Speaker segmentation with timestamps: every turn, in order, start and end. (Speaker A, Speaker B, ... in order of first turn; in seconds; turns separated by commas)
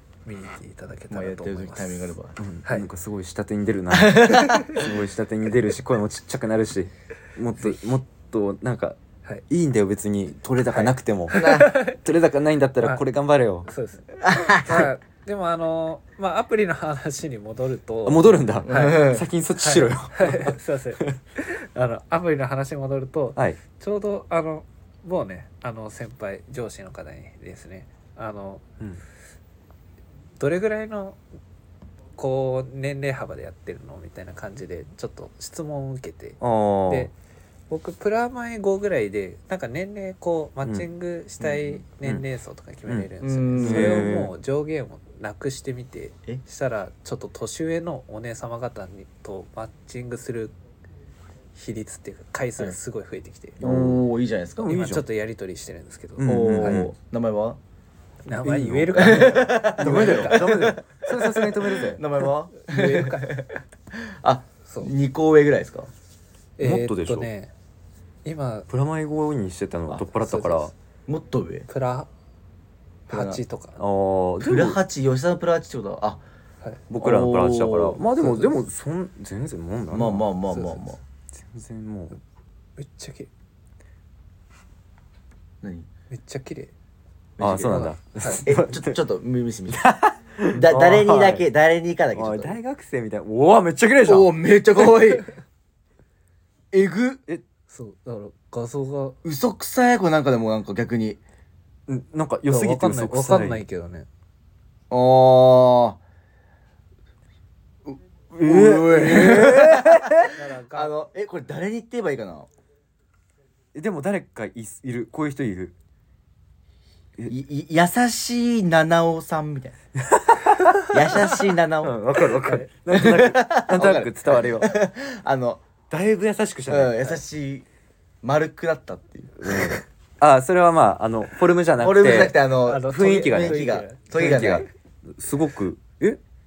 Speaker A: 0.2-2.9, Speaker B: 1.1-2.4, Speaker C: 2.4-9.0, Speaker B: 3.9-4.9, Speaker A: 4.5-4.8, Speaker C: 9.5-13.7, Speaker A: 10.7-12.0, Speaker B: 11.3-11.7, Speaker A: 13.7-28.6, Speaker B: 14.2-14.9, Speaker C: 18.1-21.2, Speaker B: 18.6-19.2, Speaker A: 30.4-31.2, Speaker A: 32.2-37.1, Speaker C: 36.4-37.1, Speaker A: 37.7-50.6, Speaker B: 41.4-41.8, Speaker C: 42.9-44.3, Speaker B: 43.2-44.2, Speaker A: 51.5-53.6, Speaker C: 53.6-54.0, Speaker B: 53.6-54.7, Speaker C: 54.6-55.1, Speaker A: 54.6-56.9, Speaker C: 56.2-56.9, Speaker B: 56.2-57.6, Speaker A: 58.3-60.4, Speaker C: 58.4-62.0, Speaker B: 59.0-65.9, Speaker A: 62.6-63.3, Speaker A: 64.7-64.9, Speaker A: 66.6-67.5, Speaker C: 66.6-67.3, Speaker A: 68.2-68.7, Speaker C: 68.7-70.7, Speaker A: 70.2-70.7, Speaker B: 71.1-71.7, Speaker A: 71.7-72.1, Speaker B: 73.1-73.4, Speaker A: 73.1-73.8, Speaker C: 73.8-74.8, Speaker B: 74.4-76.2, Speaker C: 76.9-80.3, Speaker B: 77.0-78.0, Speaker A: 78.2-78.5, Speaker B: 79.9-81.0, Speaker A: 80.5-80.9, Speaker C: 81.3-82.2, Speaker A: 82.8-83.3, Speaker B: 85.6-85.9, Speaker A: 86.1-86.7, Speaker B: 87.4-87.8, Speaker C: 87.4-89.0, Speaker A: 87.7-88.4, Speaker B: 88.4-89.9, Speaker C: 89.7-91.5, Speaker B: 90.5-92.6, Speaker C: 92.1-94.3, Speaker B: 94.0-95.3, Speaker B: 96.7-97.2, Speaker A: 97.7-99.2, Speaker B: 99.2-101.2, Speaker C: 101.9-103.6, Speaker A: 102.5-104.1, Speaker B: 104.9-106.0, Speaker B: 107.9-112.5, Speaker C: 108.3-110.3, Speaker A: 110.3-111.0, Speaker C: 113.7-115.7, Speaker B: 117.3-119.8, Speaker C: 120.0-124.8, Speaker B: 120.8-122.0, Speaker A: 122.4-122.7, Speaker B: 122.9-125.6, Speaker C: 125.9-127.2, Speaker B: 126.7-127.7, Speaker B: 128.2-129.8, Speaker C: 129.4-132.4, Speaker B: 131.8-134.7, Speaker A: 132.7-134.6, Speaker C: 132.9-136.2